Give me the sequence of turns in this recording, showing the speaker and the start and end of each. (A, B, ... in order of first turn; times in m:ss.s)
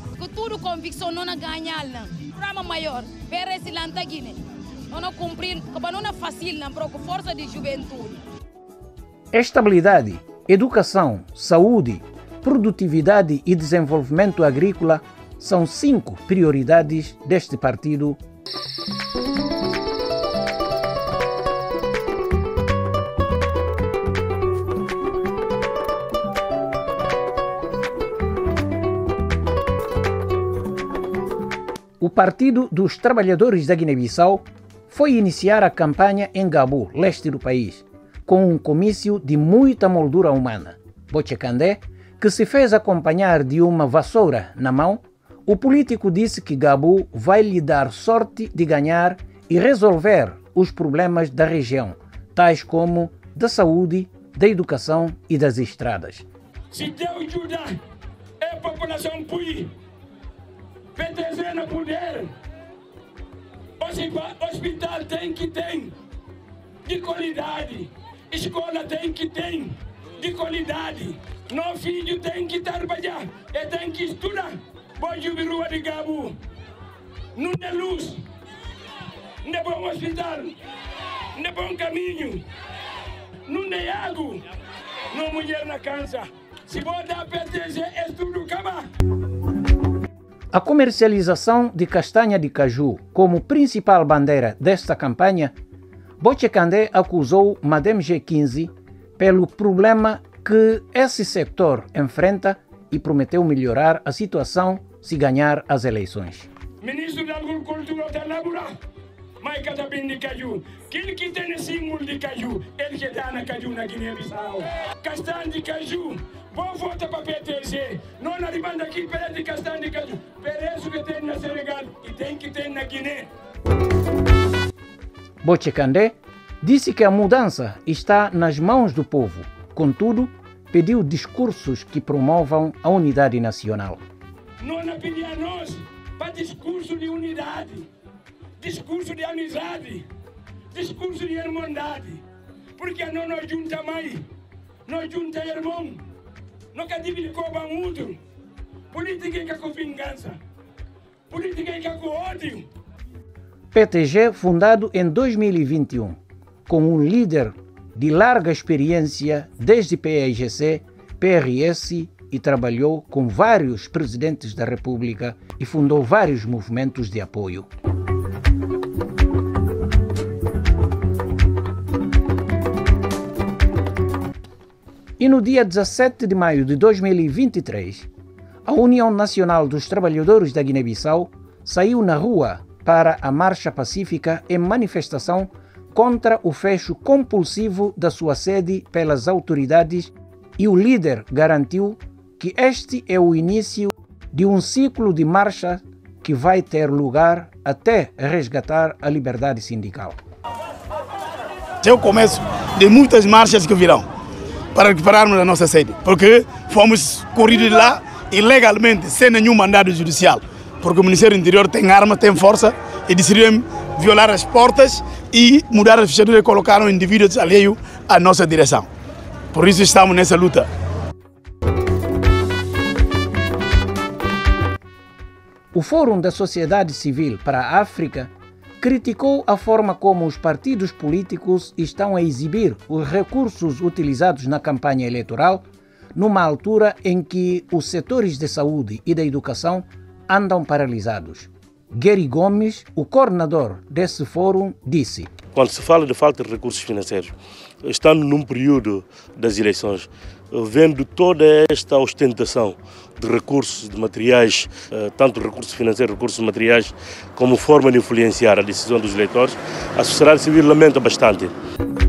0:00.2-0:04.4 A
0:04.9-0:08.2 A
0:09.3-0:18.2 B
0:32.0-0:56.2 B
0:56.7-0:57.7 C
0:58.4-0:59.7 C
1:01.0-1:02.3 C
1:03.8-1:05.9 C
1:06.8-1:16.4 C
1:17.4-1:18.2 C
1:19.4-1:20.5 C
1:21.4-1:22.4 C
1:23.5-1:24.4 C
1:25.1-1:28.9 C
1:30.5-1:35.5 B
1:36.2-1:46.5 B
1:46.8-1:48.7 C
1:49.4-2:03.3 C
2:05.4-2:14.0 B
2:14.6-2:17.9 C
2:18.6-2:20.1 C
2:20.7-2:22.2 C
2:22.8-2:24.2 C
2:24.8-2:26.0 C
2:26.7-2:28.2 C
2:28.9-2:30.4 C
2:31.3-2:32.7 C
2:33.7-2:47.7 B
2:55.2-2:58.1 B
2:58.6-3:20.2 B
3:21.8-3:24.1 D
3:24.7-3:38.9 D
3:39.5-3:40.7 D
3:45.7-4:05.3 B
4:05.5-4:21.5 E